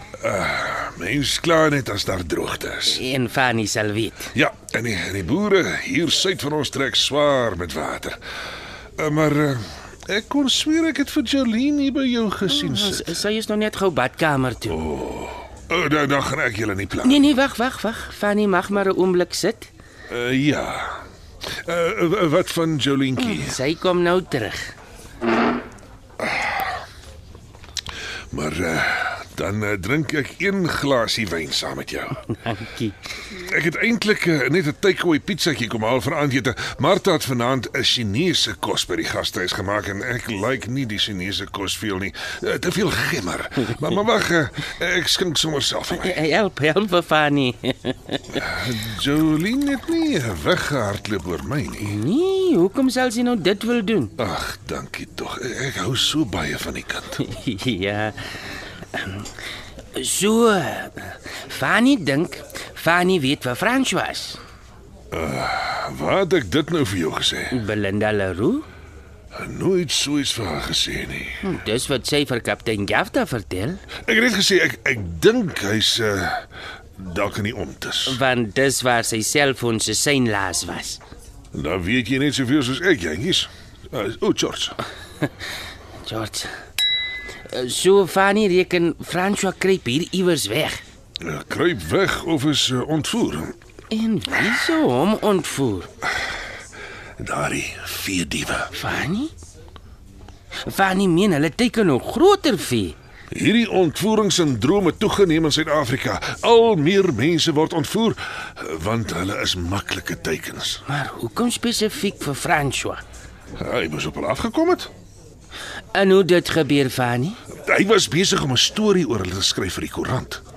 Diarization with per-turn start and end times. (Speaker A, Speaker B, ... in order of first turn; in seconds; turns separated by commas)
Speaker A: 0.2-3.0, Speaker B: 2.9-4.3, Speaker A: 4.3-8.2, Speaker A: 9.0-13.2, Speaker B: 12.5-14.8, Speaker A: 14.7-17.3, Speaker B: 17.0-19.7, Speaker A: 20.1-21.0, Speaker A: 21.6-23.6, Speaker B: 23.2-24.7, Speaker A: 26.2-26.8, Speaker A: 28.3-32.2, Speaker B: 32.4-32.9, Speaker A: 33.3-46.2, Speaker B: 45.9-48.2, Speaker A: 48.3-52.0, Speaker B: 51.8-54.1, Speaker A: 54.2-57.2, Speaker B: 57.2-58.2, Speaker B: 59.0-59.3, Speaker B: 60.0-64.4, Speaker A: 65.1-67.5, Speaker B: 67.5-68.7, Speaker A: 69.3-71.4, Speaker B: 71.4-73.8, Speaker A: 74.0-76.5, Speaker A: 77.0-78.2, Speaker B: 78.1-81.0, Speaker A: 81.5-84.8, Speaker B: 86.0-86.5, Speaker B: 87.5-90.8, Speaker A: 91.2-93.5, Speaker B: 93.9-95.9, Speaker A: 97.2-98.7, Speaker B: 98.7-99.3, Speaker B: 100.7-103.0, Speaker A: 103.3-110.8, Speaker B: 110.9-113.0, Speaker A: 113.6-114.9, Speaker B: 115.9-117.4, Speaker A: 117.7-120.4